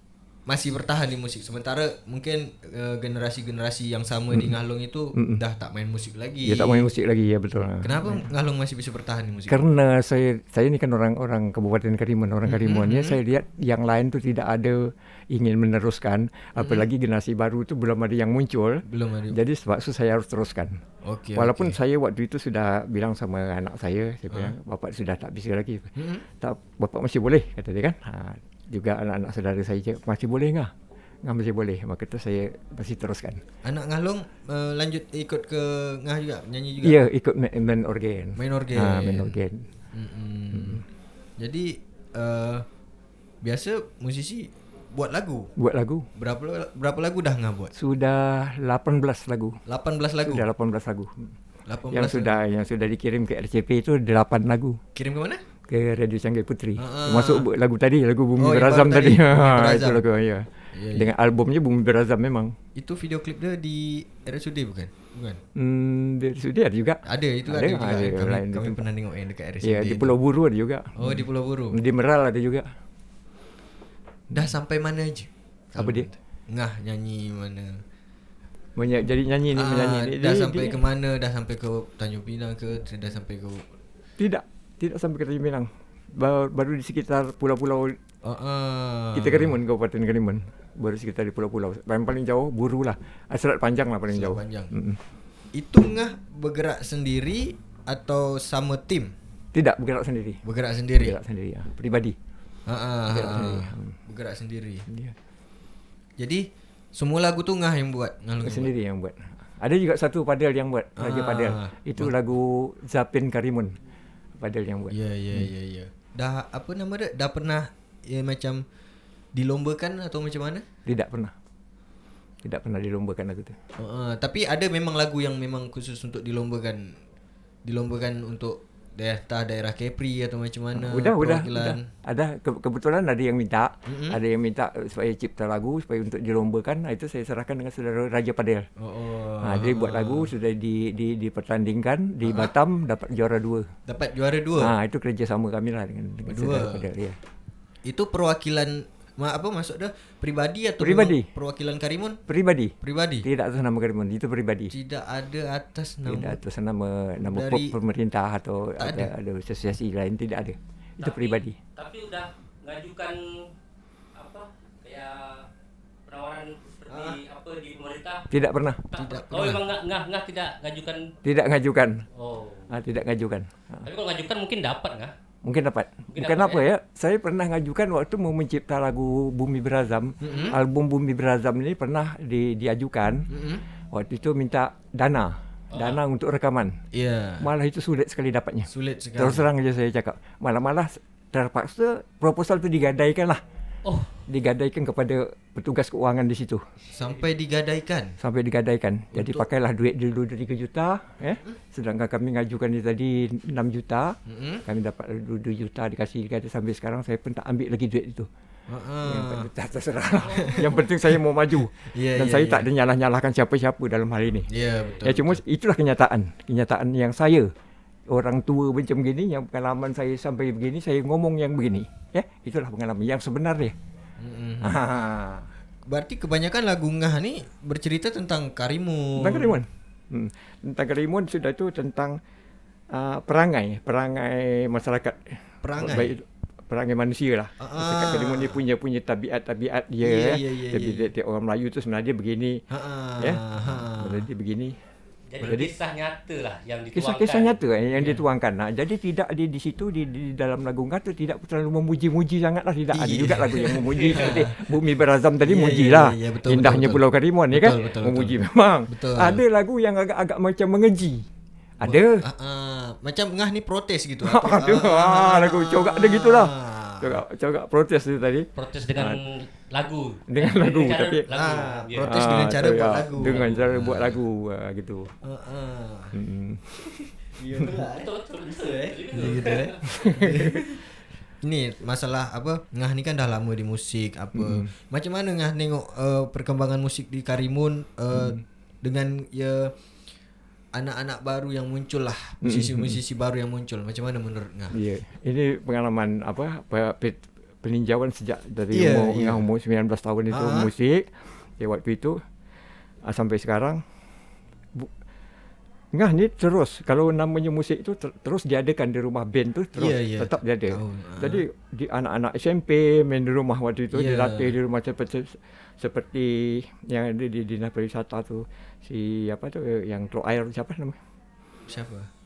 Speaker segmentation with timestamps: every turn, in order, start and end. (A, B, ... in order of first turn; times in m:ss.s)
0:00.5-0:06.9 A
0:06.4-0:08.3 B
0:07.8-0:09.6 A
0:09.5-0:20.8 B
0:12.4-0:13.2 A
0:16.6-0:16.9 A
0:18.8-0:19.4 A
0:21.0-0:21.8 A
0:21.4-0:30.7 B
0:26.0-0:26.2 A
0:31.2-0:33.4 B
0:33.6-0:37.0 A
0:36.8-0:39.6 B
0:38.4-0:39.4 A
0:39.9-0:40.8 A
0:40.5-0:40.8 B
0:41.4-0:42.6 A
0:43.4-0:45.5 A
0:45.6-0:46.1 B
0:46.2-0:47.7 A
0:47.7-0:49.6 B
0:49.6-0:50.5 A
0:50.2-0:51.3 B
0:51.7-0:52.3 A
0:51.9-0:54.8 B
0:54.9-0:55.4 A
0:55.7-1:02.5 B
0:56.8-0:57.5 A
0:58.4-1:00.0 A
1:00.7-1:01.1 A
1:02.8-1:05.4 A
1:05.6-1:08.8 B
1:07.0-1:10.1 A
1:09.6-1:12.7 B
1:11.0-1:11.8 A
1:14.3-1:17.8 A
1:15.8-1:16.1 B
1:18.8-1:20.8 B
1:19.5-1:23.7 A
1:24.2-1:28.0 B
1:28.2-1:29.6 A
1:29.1-1:35.0 B
1:34.1-1:34.7 A
1:35.5-1:39.1 A
1:39.5-1:40.4 B
1:40.4-1:41.2 A
1:41.0-1:42.1 B
1:42.7-1:44.8 A
1:43.1-1:44.0 B
1:44.9-1:45.1 B
1:47.0-1:48.7 A
1:48.4-1:53.7 B
1:51.0-1:52.1 A
1:54.4-1:55.4 B
1:54.9-1:58.6 A
1:59.4-2:00.6 A
2:00.8-2:01.3 B
2:02.4-2:03.6 B
2:03.8-2:07.0 A
2:07.6-2:11.9 A
2:10.8-2:18.6 B
2:13.8-2:14.2 A
2:18.8-2:20.3 A
2:19.4-2:23.7 B
2:22.2-2:22.5 A
2:23.9-2:24.7 A
2:24.6-2:27.2 B
2:26.3-2:26.8 A
2:27.8-2:32.2 A
2:30.8-2:31.3 B
2:32.3-2:34.7 B
2:32.8-2:33.2 A
2:34.7-2:36.4 A
2:36.1-2:41.6 B
2:37.2-2:37.7 A
2:38.8-2:39.1 A
2:41.0-2:43.5 C
2:44.2-2:45.5 C
2:46.1-2:48.3 C
2:46.9-2:47.2 A
2:48.3-2:48.9 B
2:48.9-2:51.1 C
2:49.0-2:49.6 A
2:51.2-2:52.0 B
2:52.1-2:52.7 C
2:52.7-2:53.8 B
2:53.8-2:55.1 C
2:55.4-3:03.3 B
2:56.1-2:56.6 C
3:00.2-3:00.6 A
3:03.3-3:03.6 A
3:03.9-3:06.8 B
3:06.9-3:07.4 A
3:07.4-3:13.4 B
3:08.7-3:09.4 A
3:13.8-3:14.1 C
3:14.3-3:16.6 B
3:16.9-3:18.2 A
3:18.2-3:28.3 B
3:19.1-3:19.4 A
3:24.2-3:24.6 A
3:28.7-3:29.5 A
3:29.0-3:34.5 B
3:30.3-3:31.2 A
3:31.8-3:32.7 A
3:34.5-3:35.4 A
3:35.0-3:37.5 B
3:38.1-3:43.7 B
3:44.2-3:44.8 A
3:44.6-3:45.5 B
3:45.9-3:49.6 A
3:49.2-3:52.2 B
3:52.9-4:02.6 B
3:55.6-3:56.1 A
3:57.6-3:58.6 A
4:00.0-4:01.1 A
4:02.7-4:04.2 A
4:03.2-4:04.7 B
4:05.3-4:07.5 C
4:05.4-4:05.7 B
4:06.9-4:21.2 B
4:12.9-4:14.7 A
4:14.1-4:14.4 C
4:15.4-4:19.4 A
4:21.8-4:22.2 B
4:21.8-4:27.2 A
4:24.2-4:29.2 B
4:28.6-4:32.3 C
4:30.3-4:31.3 B
4:31.3-4:34.2 A
4:32.0-4:35.1 B
4:35.2-4:36.1 A
4:36.1-4:36.7 B
4:36.8-4:40.8 A
4:37.9-4:39.8 C
4:39.8-4:40.6 B
4:41.4-4:49.7 A
4:44.4-4:44.7 B
4:48.1-4:48.4 B
4:50.7-4:54.7 A
4:52.4-4:53.0 B
4:54.7-5:02.2 B
4:58.7-4:59.4 A
5:00.3-5:00.7 A
5:03.1-5:03.8 B
5:05.9-5:21.0 B
5:09.8-5:11.4 A
5:13.9-5:14.5 A
5:21.7-5:22.1 A